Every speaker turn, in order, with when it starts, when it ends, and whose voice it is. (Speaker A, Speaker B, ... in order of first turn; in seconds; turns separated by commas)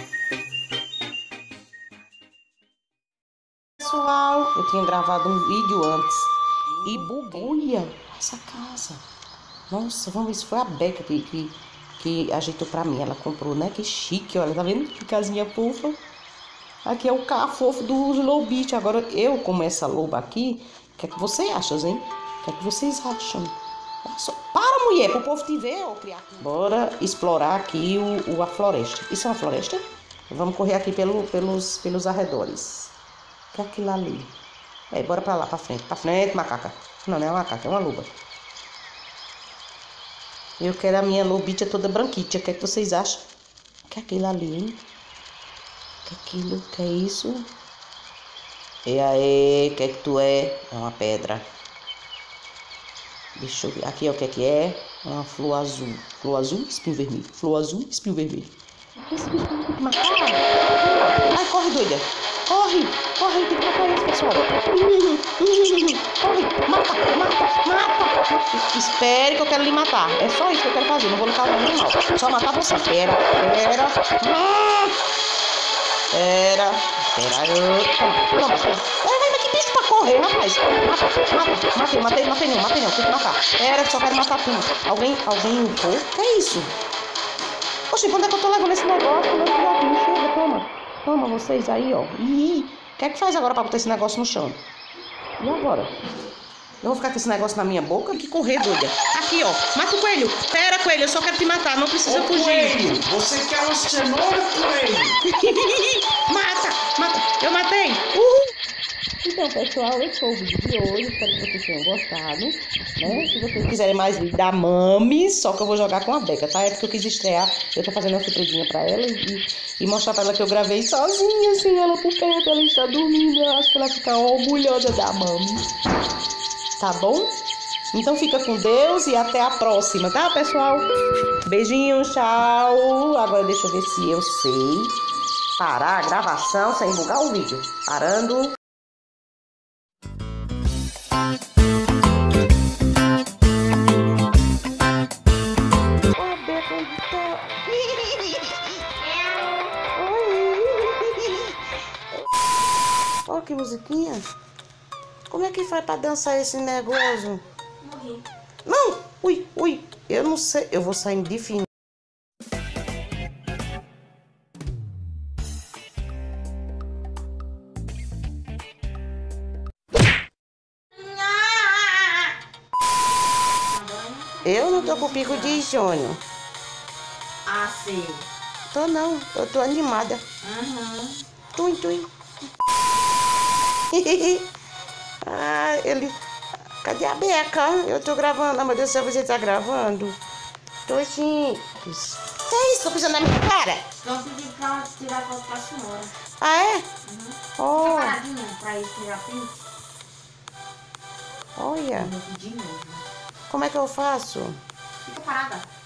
Speaker A: 3.8-9.0, Speaker A: 9.7-16.0, Speaker A: 16.9-32.9, Speaker A: 33.5-34.3, Speaker A: 34.9-38.1, Speaker A: 40.6-43.3, Speaker A: 43.9-44.8, Speaker A: 46.0-47.5, Speaker A: 48.9-51.5, Speaker A: 53.4-58.5, Speaker A: 59.0-75.0, Speaker A: 76.1-86.7, Speaker A: 87.9-94.6, Speaker A: 95.4-95.9, Speaker A: 96.8-103.0, Speaker B: 102.1-105.2, Speaker A: 105.2-108.5, Speaker A: 109.2-125.7, Speaker A: 126.8-127.3, Speaker A: 127.9-130.9, Speaker A: 131.4-135.0, Speaker A: 135.6-138.6, Speaker A: 146.1-148.7, Speaker C: 149.1-149.6, Speaker A: 149.9-151.6, Speaker A: 153.3-154.2, Speaker A: 155.3-157.4, Speaker C: 157.8-158.2, Speaker A: 158.7-161.7, Speaker C: 170.9-172.4, Speaker C: 173.7-175.6, Speaker A: 174.4-176.2, Speaker C: 177.5-178.3, Speaker A: 178.7-180.2, Speaker C: 180.4-181.2, Speaker A: 181.6-182.1, Speaker A: 183.9-184.5, Speaker A: 185.2-186.2, Speaker A: 186.8-190.2, Speaker A: 190.9-193.8, Speaker C: 194.0-196.2, Speaker A: 196.4-196.8, Speaker C: 197.1-199.6, Speaker A: 197.6-198.2, Speaker A: 201.6-202.1, Speaker C: 201.9-203.0, Speaker A: 203.5-204.6, Speaker C: 205.1-205.7